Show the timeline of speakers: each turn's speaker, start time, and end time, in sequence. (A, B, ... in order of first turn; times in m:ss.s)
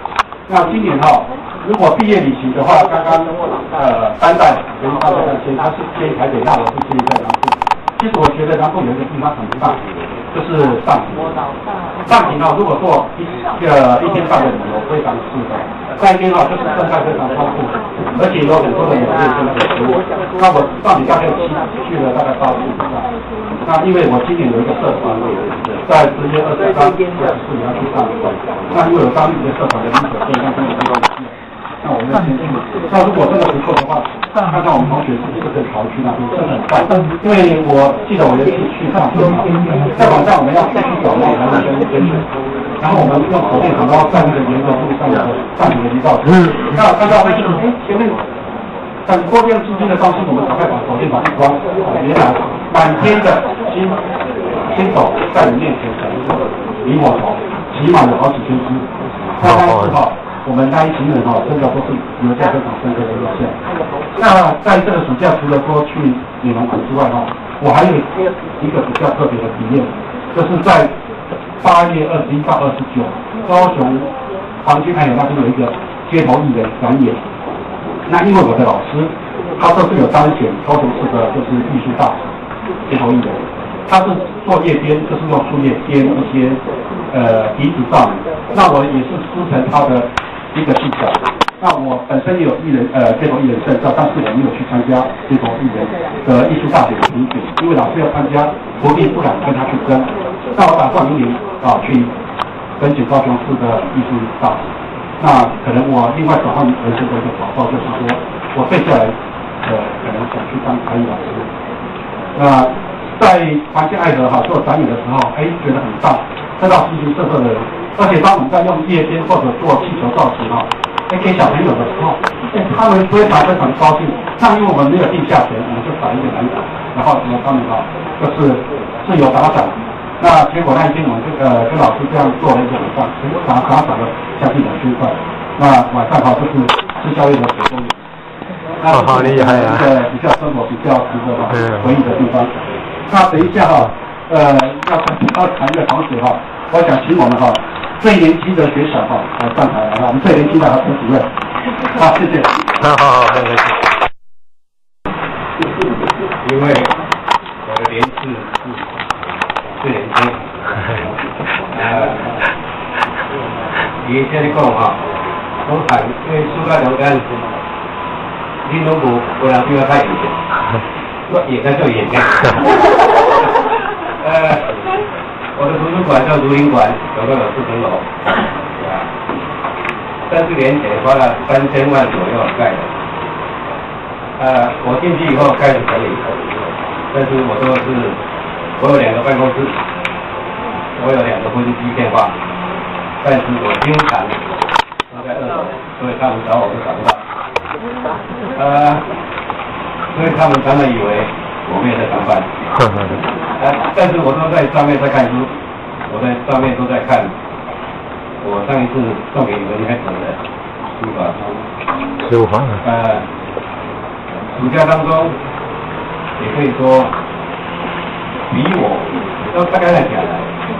0:00.5-0:09.8 A
0:10.3-0:11.4 A
0:12.0-0:23.0 A
0:23.6-0:42.3 A
0:42.8-0:48.1 A
0:49.0-0:54.0 A
0:54.7-0:58.9 A
0:59.4-1:03.6 A
0:59.4-1:00.0 B
1:04.1-1:10.9 A
1:11.6-1:14.1 A
1:14.6-1:17.2 A
1:18.0-1:22.3 A
1:22.8-1:42.1 A
1:42.8-1:44.7 A
1:45.2-1:51.5 A
1:52.3-2:18.0 A
2:18.8-2:22.5 A
2:18.9-2:19.9 B
2:21.5-2:21.9 B
2:23.1-2:31.3 A
2:31.9-2:32.5 A
2:32.8-2:33.7 B
2:36.4-2:36.9 C
2:37.6-2:38.8 C
2:39.8-2:40.4 C
2:41.7-2:42.2 C
2:44.0-2:45.0 C
2:45.6-2:47.2 C
2:48.6-2:50.3 C
2:51.3-2:52.6 C
2:54.2-2:54.6 C
2:55.6-2:58.1 C
2:58.8-2:59.1 C
3:00.3-3:02.9 C
3:04.4-3:06.2 C
3:07.1-3:08.2 C
3:08.8-3:09.7 C
3:11.0-3:12.3 C
3:13.2-3:14.4 C
3:15.1-3:17.2 C
3:18.5-3:19.0 C
3:20.1-3:22.5 C
3:22.8-3:23.2 B
3:23.5-3:25.5 C
3:26.1-3:27.3 C
3:28.4-3:30.4 C
3:30.9-3:31.4 C
3:32.2-3:32.8 B
3:32.8-3:33.2 C
3:34.5-3:35.4 C
3:36.4-3:37.1 C
3:38.5-3:40.5 C